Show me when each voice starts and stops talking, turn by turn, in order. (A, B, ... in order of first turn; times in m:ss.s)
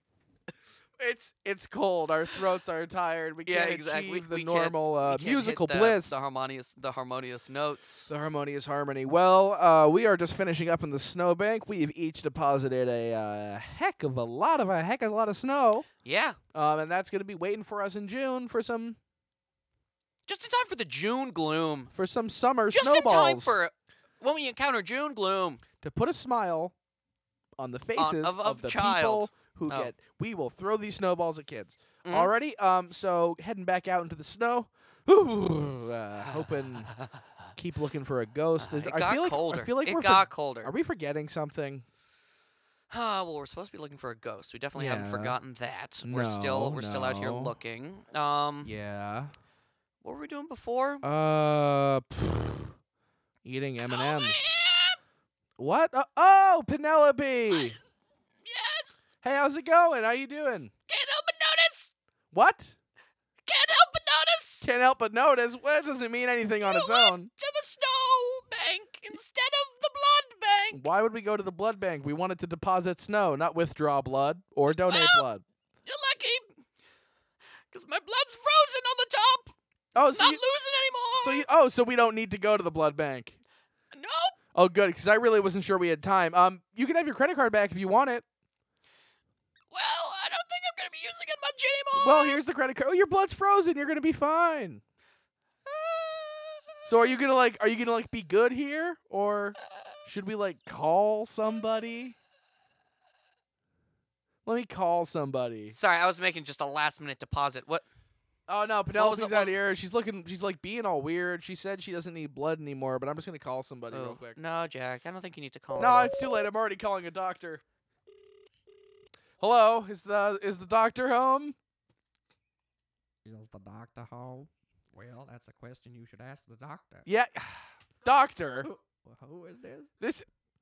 0:01.0-0:06.2 A
0:03.4-0:08.1 B
0:08.1-0:15.9 A
0:16.0-0:16.4 B
0:16.5-0:19.0 A
0:20.3-0:21.9 B
0:21.9-0:23.5 A
0:22.7-0:25.6 B
0:25.8-0:26.7 A
0:27.6-0:36.9 A
0:28.0-0:29.9 B
0:32.0-0:32.3 B
0:36.2-0:37.4 B
0:37.6-0:41.8 A
0:38.6-0:40.7 B
0:42.9-0:48.7 B
0:44.8-0:45.4 A
0:46.0-0:47.5 A
0:48.6-0:49.3 A
0:50.0-0:51.0 B
0:51.0-0:52.7 A
0:53.4-0:54.4 A
0:53.9-0:55.0 B
0:55.6-0:57.8 A
0:58.4-0:59.0 B
0:59.2-1:00.7 A
1:00.9-1:01.9 B
1:02.3-1:02.7 A
1:03.4-1:04.7 B
1:04.6-1:07.3 A
1:06.6-1:10.8 B
1:10.7-1:15.4 A
1:14.9-1:15.2 B
1:15.8-1:16.5 B
1:17.7-1:19.5 B
1:19.9-1:20.4 A
1:20.1-1:21.4 B
1:21.2-1:23.4 A
1:23.9-1:24.3 B
1:24.5-1:28.2 A
1:29.7-1:32.4 B
1:32.0-1:34.8 A
1:36.8-1:42.2 A
1:44.4-1:45.8 A
1:45.7-1:47.8 B
1:48.5-1:54.4 A
1:49.0-1:49.6 B
1:53.9-1:56.1 B
1:55.8-1:57.6 A
1:59.4-2:01.5 A
2:03.2-2:07.0 C
2:07.0-2:08.7 A
2:08.6-2:09.9 C
2:10.0-2:10.2 A